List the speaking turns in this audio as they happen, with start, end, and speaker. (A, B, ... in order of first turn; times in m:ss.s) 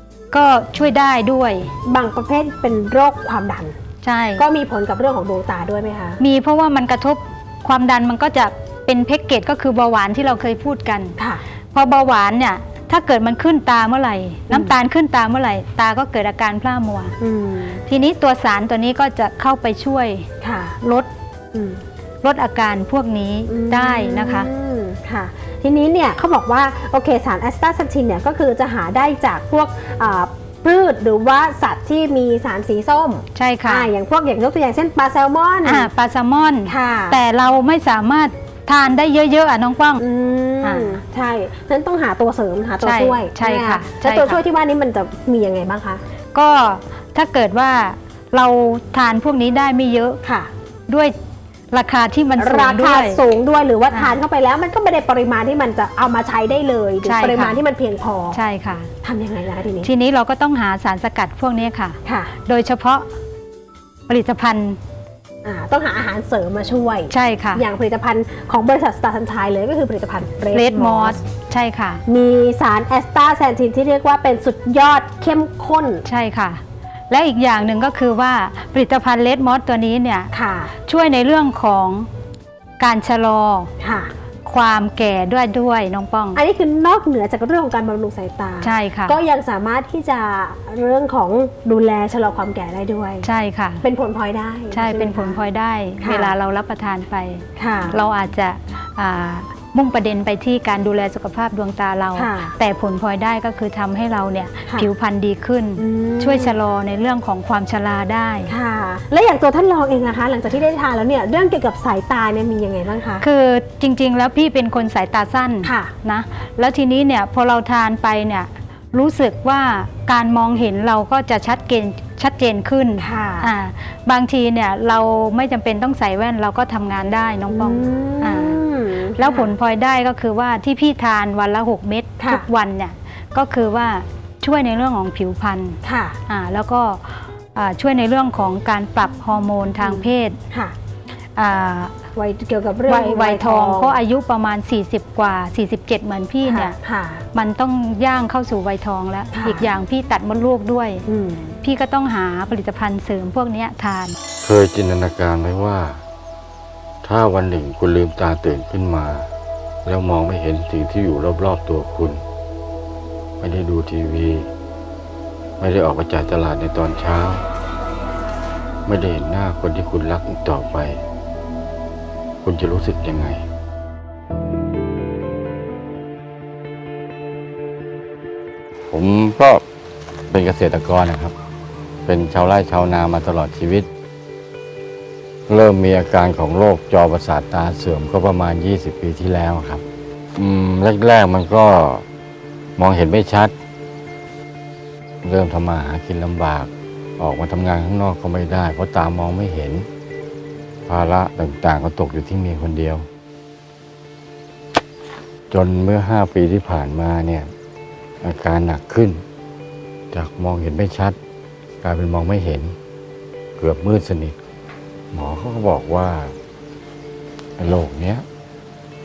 0:00.3-0:01.7 A
0:01.9-0:03.8 B
0:04.0-0:04.4 A
0:04.4-0:06.2 B
0:06.2-0:11.2 A
0:11.7-0:17.1 A
0:17.2-0:17.8 B
0:17.9-0:20.3 A
0:20.4-0:20.8 B
0:20.8-0:21.1 A
0:21.5-0:21.8 B
0:22.2-0:24.5 A
0:23.5-0:35.9 B
0:33.4-0:33.9 A
0:35.6-0:40.0 A
0:36.7-0:37.2 B
0:40.0-0:46.0 B
0:40.6-0:41.0 A
0:42.8-0:44.4 A
0:46.4-0:50.2 A
0:50.2-0:50.5 B
0:50.9-0:51.1 A
0:51.7-0:53.2 A
0:52.4-0:58.4 B
0:53.9-0:54.2 A
0:57.0-0:57.6 A
0:58.3-0:58.9 A
0:59.0-0:59.9 B
0:59.8-1:03.1 A
1:02.0-1:02.3 B
1:04.1-1:04.8 A
1:05.4-1:11.2 B
1:07.1-1:07.6 A
1:10.5-1:12.0 A
1:12.1-1:16.0 B
1:16.0-1:20.3 A
1:20.3-1:20.7 B
1:20.9-1:22.1 A
1:22.8-1:23.7 A
1:23.8-1:24.1 B
1:24.5-1:26.4 A
1:26.4-1:33.3 B
1:28.6-1:29.2 A
1:33.2-1:33.8 A
1:33.8-1:35.4 B
1:34.7-1:48.5 A
1:36.0-1:36.3 B
1:37.6-1:38.0 B
1:42.2-1:42.6 B
1:45.8-1:46.6 B
1:48.5-1:53.2 B
1:53.2-2:08.6 A
1:55.6-1:55.9 B
2:03.0-2:03.5 B
2:07.5-2:09.5 B
2:09.2-2:20.4 A
2:15.8-2:16.2 B
2:19.8-2:20.8 B
2:21.4-2:22.0 A
2:22.2-2:24.0 B
2:22.9-2:26.8 A
2:26.5-2:27.2 B
2:27.3-2:31.1 A
2:29.3-2:29.7 B
2:31.1-2:31.6 B
2:31.6-2:34.2 A
2:34.4-2:36.0 C
2:37.0-2:39.3 C
2:39.8-2:42.2 C
2:43.4-2:44.5 C
2:45.6-2:47.4 C
2:48.9-2:51.0 C
2:52.4-2:53.4 C
2:58.9-2:59.6 C
3:00.3-3:01.3 C
3:02.1-3:03.9 C
3:05.5-3:09.8 C
3:10.4-3:12.0 C
3:12.8-3:13.5 C
3:15.2-3:19.9 C
3:20.9-3:23.1 C
3:25.5-3:27.5 C
3:28.2-3:29.2 C
3:30.1-3:31.2 C
3:31.8-3:32.8 C
3:33.6-3:34.4 C
3:35.1-3:36.4 C
3:37.6-3:38.3 C